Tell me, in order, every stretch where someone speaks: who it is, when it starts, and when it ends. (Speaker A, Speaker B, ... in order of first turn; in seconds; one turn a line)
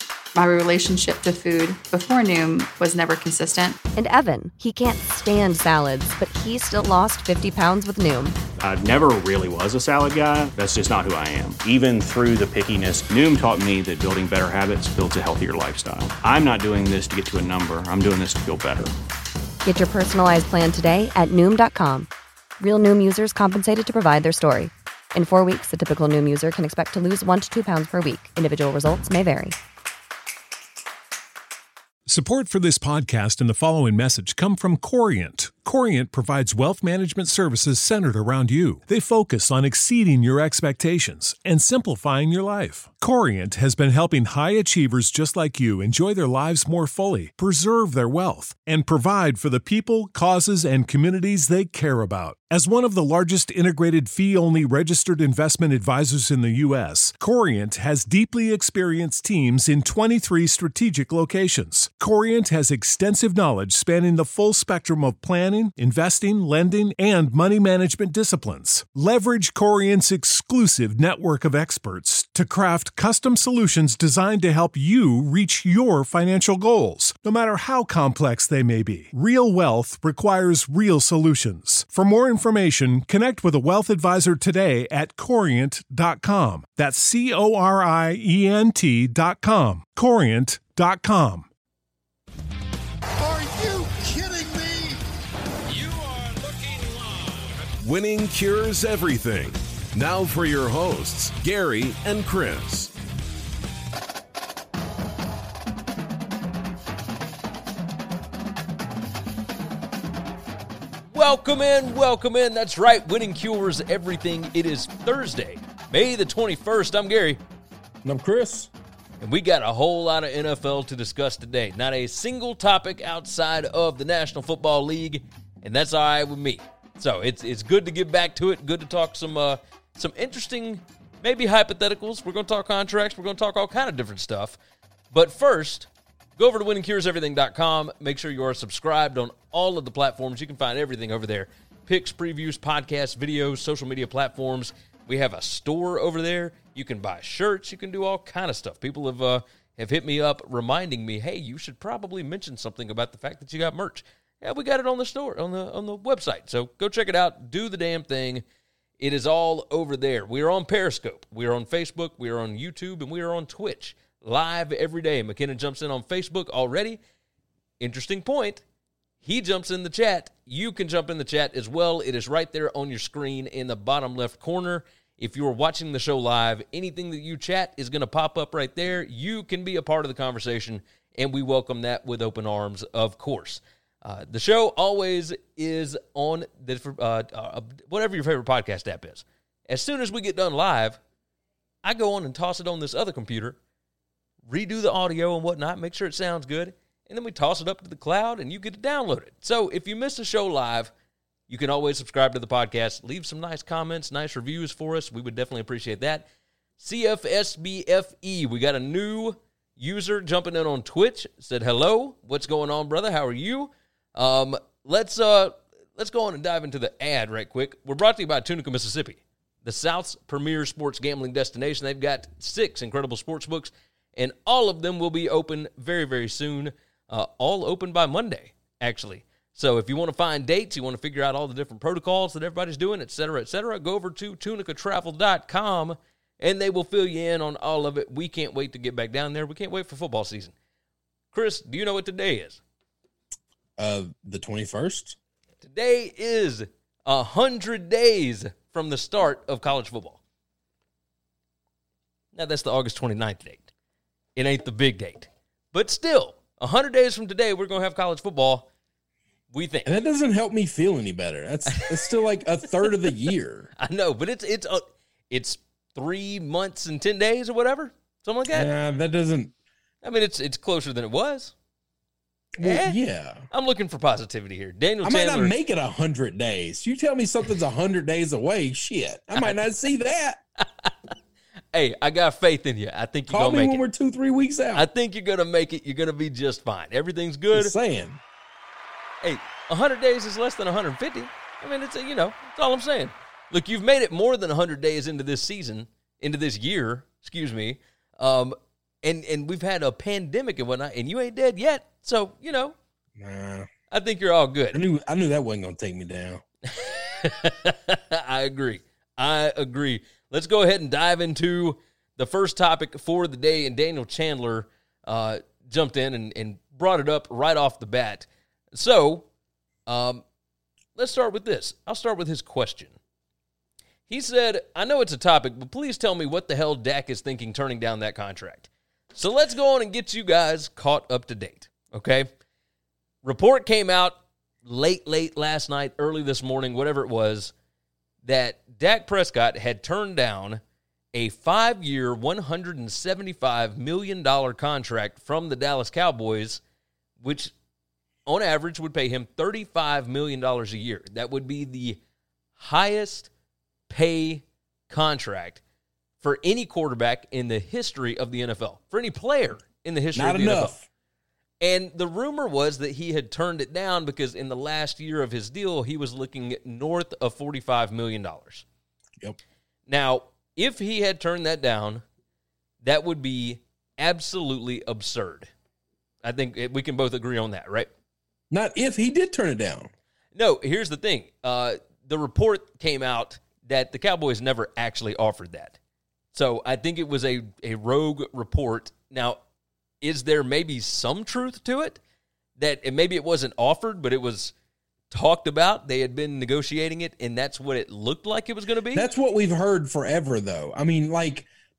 Speaker A: 0.3-3.8
Speaker B: 4.0-8.4
Speaker C: 8.6-18.9
Speaker B: 19.6-29.6
Speaker D: 32.1-91.5
Speaker E: 93.2-94.9
Speaker E: 95.8-96.4
Speaker E: 97.8-102.9
Speaker F: 111.1-117.4
Speaker G: 118.0-118.7
Speaker F: 119.2-134.6
Speaker F: 135.1-158.4
Speaker F: 159.0-167.0
Speaker F: 167.8-168.6
Speaker F: 169.2-191.0
Speaker F: 191.8-193.6
Speaker F: 194.5-200.9
Speaker F: 201.5-206.3
Speaker F: 206.8-240.5
Speaker F: 241.3-242.6
Speaker G: 243.8-245.2
Speaker F: 245.6-250.2
Speaker F: 252.3-253.7
Speaker F: 254.4-258.7
Speaker F: 259.5-259.9
Speaker G: 259.9-263.7
Speaker F: 261.7-262.1
Speaker F: 262.9-263.2
Speaker F: 263.8-268.7
Speaker G: 268.5-269.5
Speaker F: 270.0-271.5
Speaker G: 272.6-273.5
Speaker F: 272.6-273.0
Speaker F: 273.5-275.5
Speaker G: 275.0-280.4
Speaker F: 279.4-279.6
Speaker F: 280.6-281.1
Speaker F: 281.7-283.8
Speaker G: 283.3-284.9
Speaker F: 284.7-287.8
Speaker G: 287.5-288.2
Speaker F: 289.2-302.8
Speaker G: 303.2-303.7
Speaker F: 303.9-304.8
Speaker G: 304.7-306.4
Speaker F: 306.7-319.3
Speaker F: 319.9-320.2
Speaker F: 321.0-323.0
Speaker F: 324.1-332.3
Speaker F: 333.2-337.5
Speaker F: 338.2-340.6
Speaker F: 341.1-346.6
Speaker F: 347.2-347.5
Speaker F: 348.3-352.0
Speaker F: 352.6-353.3
Speaker F: 353.9-355.6
Speaker F: 356.2-360.8
Speaker G: 360.1-360.9
Speaker F: 361.6-368.6
Speaker F: 369.9-372.0
Speaker F: 372.8-375.5
Speaker F: 376.2-377.9
Speaker G: 378.5-379.9
Speaker F: 380.4-385.8
Speaker F: 386.3-389.4
Speaker F: 390.0-392.0
Speaker F: 392.6-394.5
Speaker F: 395.1-399.1
Speaker G: 398.9-401.5